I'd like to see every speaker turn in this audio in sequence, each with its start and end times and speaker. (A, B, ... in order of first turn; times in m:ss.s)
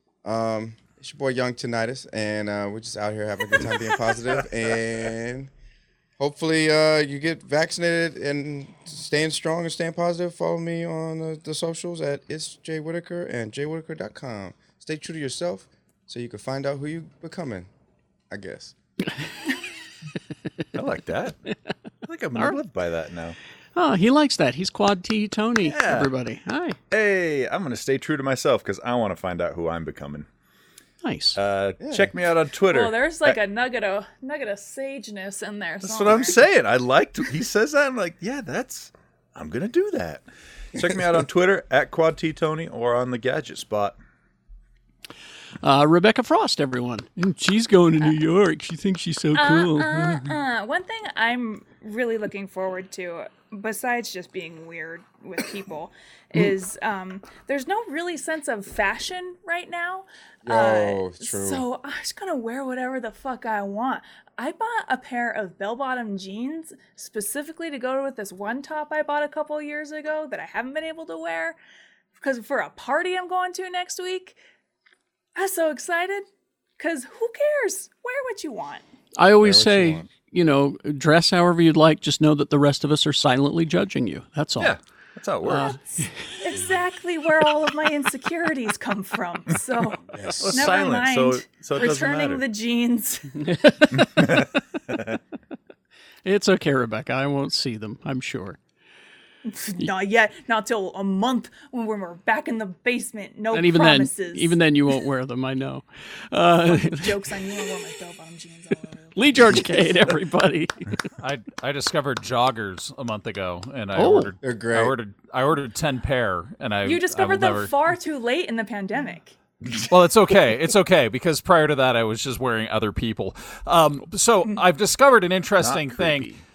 0:00.2-0:05.5 A
0:06.2-0:17.7 A
0:18.3-0:18.7 A
0:20.8-0:21.4 B
0:22.0-0:23.4 B
0:23.8-0:26.8 C
0:25.6-0:26.1 B
0:26.9-0:30.3 B
0:31.0-0:31.4 C
0:31.4-0:33.4 B
0:31.8-0:32.1 A
0:32.7-0:36.4 D
0:35.8-0:44.0 B
0:45.6-0:50.3 C
0:49.3-1:11.6 D
1:00.4-1:01.6 A
1:12.2-1:14.4 D
1:15.4-1:16.3 D
1:16.8-1:18.8 D
1:19.2-1:24.8 C
1:19.4-1:20.1 A
1:24.6-1:25.8 B
1:25.4-1:26.1 C
1:26.4-1:33.4 D
1:30.2-1:30.7 A
1:30.4-1:32.4 B
1:33.4-1:34.4 C
1:33.9-1:35.2 B
1:36.2-1:38.6 C
1:39.5-1:44.6 D
1:43.5-1:47.2 C
1:46.7-1:49.9 D
1:49.2-1:50.9 C
1:51.2-1:57.8 E
1:54.0-1:54.3 C
1:54.4-1:55.0 A
1:56.8-1:59.3 D
1:59.9-2:06.3 E
2:05.6-2:06.4 B